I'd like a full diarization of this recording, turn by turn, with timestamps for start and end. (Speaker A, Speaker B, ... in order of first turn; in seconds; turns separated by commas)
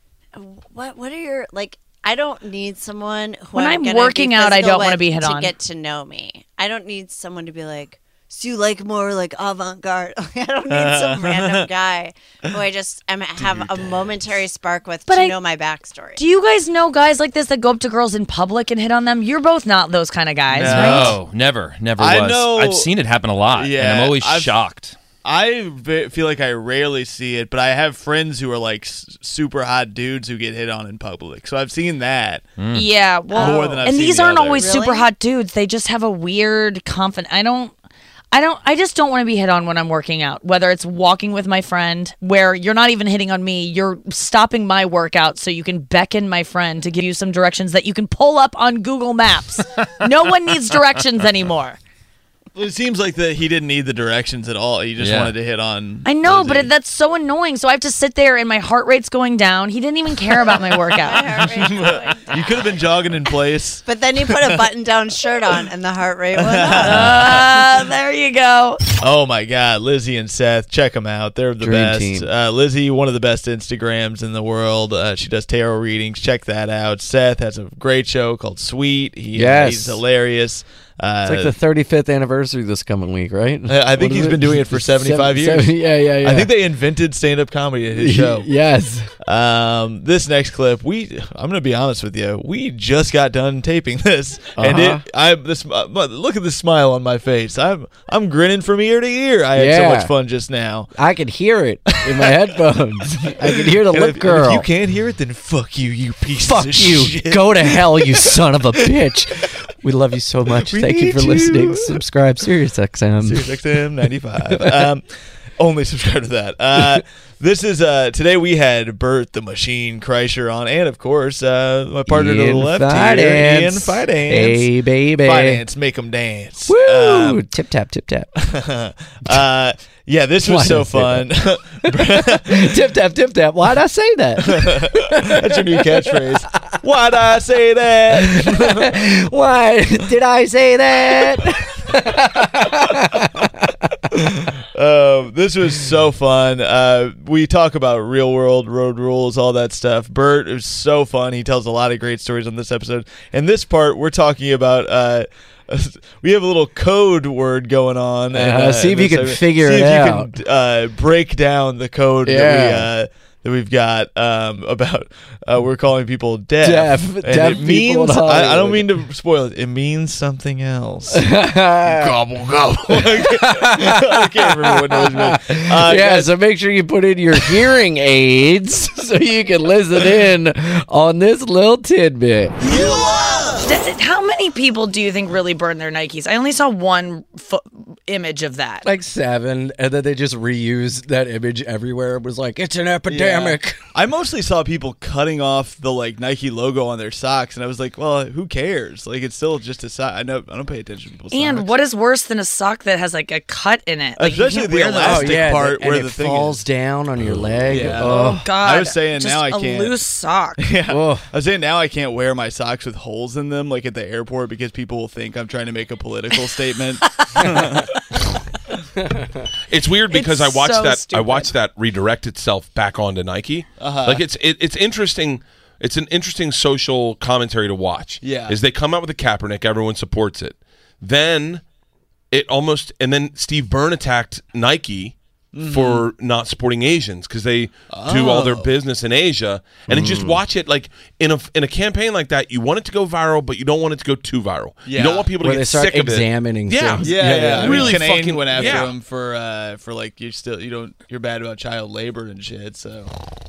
Speaker A: 0.3-16.2, Speaker B: 3.5-5.5, Speaker C: 10.7-11.7, Speaker C: 13.4-14.2, Speaker B: 15.1-15.3, Speaker B: 16.1-21.1, Speaker C: 20.5-21.2, Speaker D: 20.6-24.9, Speaker C: 22.0-22.9, Speaker C: 23.5-24.5, Speaker C: 25.2-32.5, Speaker D: 32.6-32.9, Speaker B: 32.7-37.7, Speaker A: 33.3-33.9, Speaker C: 33.3-34.6, Speaker A: 34.5-35.1, Speaker B: 38.3-51.8, Speaker C: 52.5-56.7, Speaker D: 55.0-55.3, Speaker B: 56.0-61.4, Speaker A: 60.9-62.6, Speaker C: 61.4-64.6, Speaker A: 63.8-67.4, Speaker C: 66.3-67.5, Speaker B: 66.8-68.8, Speaker C: 69.0-81.5, Speaker E: 71.6-72.3, Speaker E: 79.3-80.0, Speaker E: 81.2-86.5, Speaker C: 83.7-88.5, Speaker E: 88.0-89.1, Speaker C: 89.2-100.9, Speaker E: 94.5-95.0, Speaker E: 99.5-100.1, Speaker E: 100.9-104.7, Speaker C: 101.9-102.5, Speaker C: 103.2-108.8, Speaker E: 106.4-113.6, Speaker C: 110.5-112.0, Speaker C: 113.2-115.0, Speaker E: 114.4-114.8, Speaker C: 115.6-127.4, Speaker E: 122.1-125.6, Speaker E: 126.7-128.3, Speaker C: 128.3-132.8, Speaker E: 130.4-136.3, Speaker C: 134.4-138.9, Speaker E: 138.2-143.7, Speaker C: 144.1-171.3, Speaker E: 158.3-160.3, Speaker E: 162.2-162.9, Speaker E: 166.6-168.9, Speaker E: 171.1-182.6, Speaker C: 171.8-176.3, Speaker C: 182.6-183.6, Speaker B: 183.6-188.8, Speaker E: 188.8-193.8, Speaker C: 193.1-201.7, Speaker B: 201.3-205.4, Speaker C: 204.2-206.6, Speaker E: 205.0-208.5, Speaker C: 207.7-209.9, Speaker B: 208.0-210.6, Speaker C: 210.6-217.9, Speaker E: 210.9-211.2, Speaker F: 219.7-231.6, Speaker B: 220.1-221.5, Speaker C: 223.8-224.2, Speaker C: 228.2-228.6, Speaker F: 232.3-248.9, Speaker C: 235.5-236.1, Speaker C: 237.9-238.8, Speaker E: 239.9-240.4, Speaker C: 244.8-245.3, Speaker E: 245.4-248.9, Speaker C: 247.0-253.1